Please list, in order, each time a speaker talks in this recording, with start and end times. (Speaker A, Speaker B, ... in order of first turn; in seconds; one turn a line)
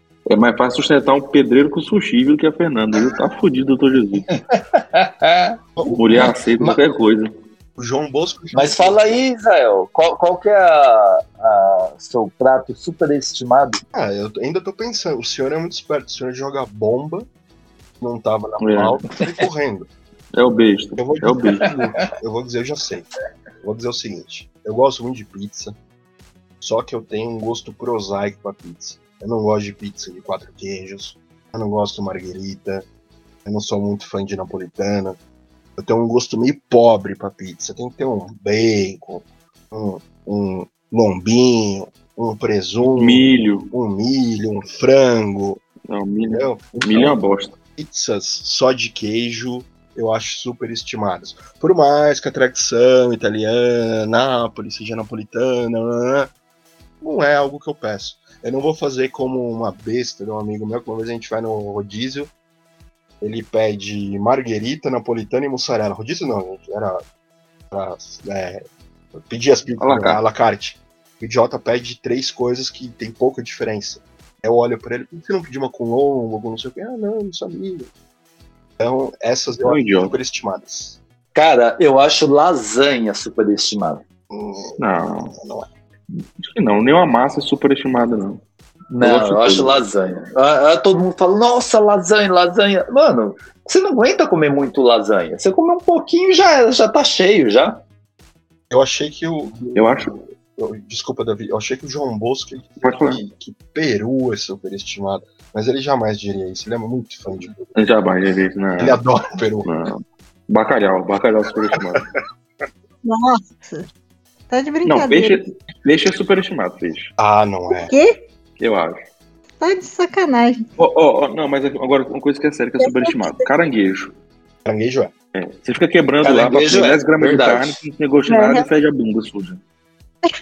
Speaker A: 0.3-4.3
Speaker B: 4.3-5.6
Speaker C: 5.8-6.3
Speaker A: 5.9-7.3
Speaker B: 6.1-6.8
Speaker C: 7.8-9.2
Speaker B: 8.5-13.8
Speaker C: 13.9-17.3
Speaker C: 18.0-19.9
Speaker A: 18.6-19.0
Speaker A: 20.4-21.7
Speaker C: 21.0-23.1
Speaker C: 23.6-25.8
Speaker C: 26.6-32.9
Speaker C: 33.5-35.2
Speaker C: 35.8-45.6
Speaker A: 43.0-43.7
Speaker A: 45.9-47.5
Speaker C: 46.3-47.2
Speaker C: 47.8-56.3
Speaker C: 57.0-62.3
Speaker C: 63.2-67.0
Speaker C: 67.7-68.6
Speaker C: 69.2-77.9
Speaker A: 69.8-70.2
Speaker C: 78.8-81.0
Speaker A: 79.7-80.2
Speaker B: 81.3-84.0
Speaker C: 84.3-85.7
Speaker A: 84.8-85.3
Speaker A: 86.4-88.4
Speaker B: 88.9-97.8
Speaker A: 89.0-89.8
Speaker C: 98.7-107.7
Speaker A: 99.8-100.1
Speaker A: 102.8-103.2
Speaker A: 107.8-109.0
Speaker C: 108.8-109.7
Speaker A: 109.7-112.1
Speaker C: 111.8-112.0
Speaker D: 113.0-113.9
Speaker D: 114.5-115.4
Speaker A: 114.8-117.1
Speaker C: 117.2-117.9
Speaker D: 117.8-118.2
Speaker A: 118.6-119.0
Speaker D: 119.6-120.7
Speaker A: 120.8-124.1
Speaker D: 122.8-123.4
Speaker C: 124.7-125.1
Speaker A: 125.3-129.6
Speaker B: 126.2-127.8
Speaker D: 128.3-128.7